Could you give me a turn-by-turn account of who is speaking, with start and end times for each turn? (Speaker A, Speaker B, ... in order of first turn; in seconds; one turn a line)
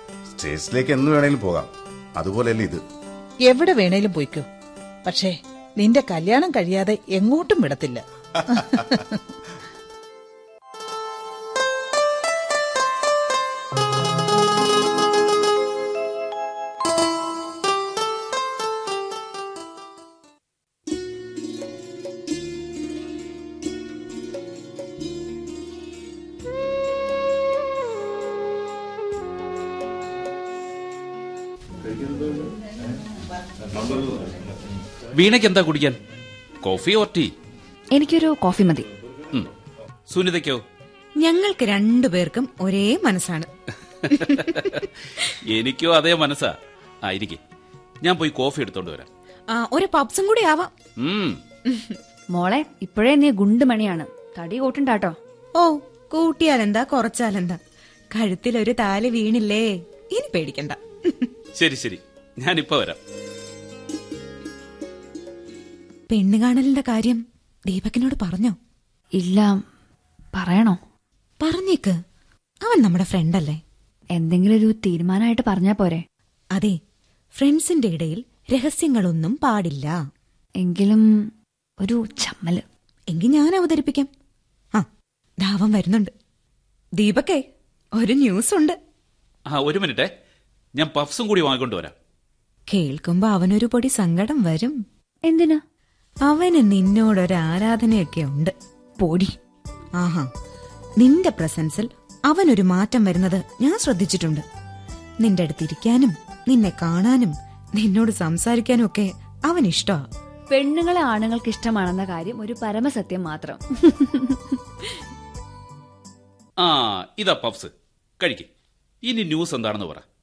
Speaker A: 0.3-2.8
Speaker B: 3.5-4.5
Speaker B: 5.0-9.2
Speaker A: 8.5-8.8
Speaker C: 35.1-36.0
Speaker C: 36.6-37.3
Speaker D: 37.9-38.9
Speaker C: 40.1-40.6
Speaker E: 41.2-43.5
Speaker E: 44.1-45.3
Speaker C: 44.1-44.8
Speaker C: 45.5-47.4
Speaker C: 48.0-49.1
Speaker E: 49.5-50.7
Speaker C: 51.0-51.4
Speaker E: 51.6-52.0
Speaker D: 52.3-55.1
Speaker E: 55.6-57.6
Speaker E: 58.1-61.3
Speaker C: 61.5-63.0
Speaker E: 66.1-68.5
Speaker D: 69.1-69.6
Speaker D: 70.3-70.8
Speaker E: 71.4-72.0
Speaker E: 72.6-73.6
Speaker D: 74.1-76.0
Speaker E: 77.4-80.0
Speaker D: 80.6-81.3
Speaker D: 81.8-82.6
Speaker E: 83.1-84.1
Speaker E: 85.4-86.1
Speaker E: 87.0-87.4
Speaker E: 88.0-88.8
Speaker C: 89.5-90.1
Speaker C: 90.8-91.9
Speaker E: 92.7-94.8
Speaker D: 95.2-95.6
Speaker E: 96.2-98.5
Speaker D: 99.0-99.3
Speaker E: 100.0-100.3
Speaker E: 101.0-104.4
Speaker E: 105.2-110.0
Speaker D: 110.5-114.5
Speaker C: 116.6-118.5
Speaker C: 119.0-120.0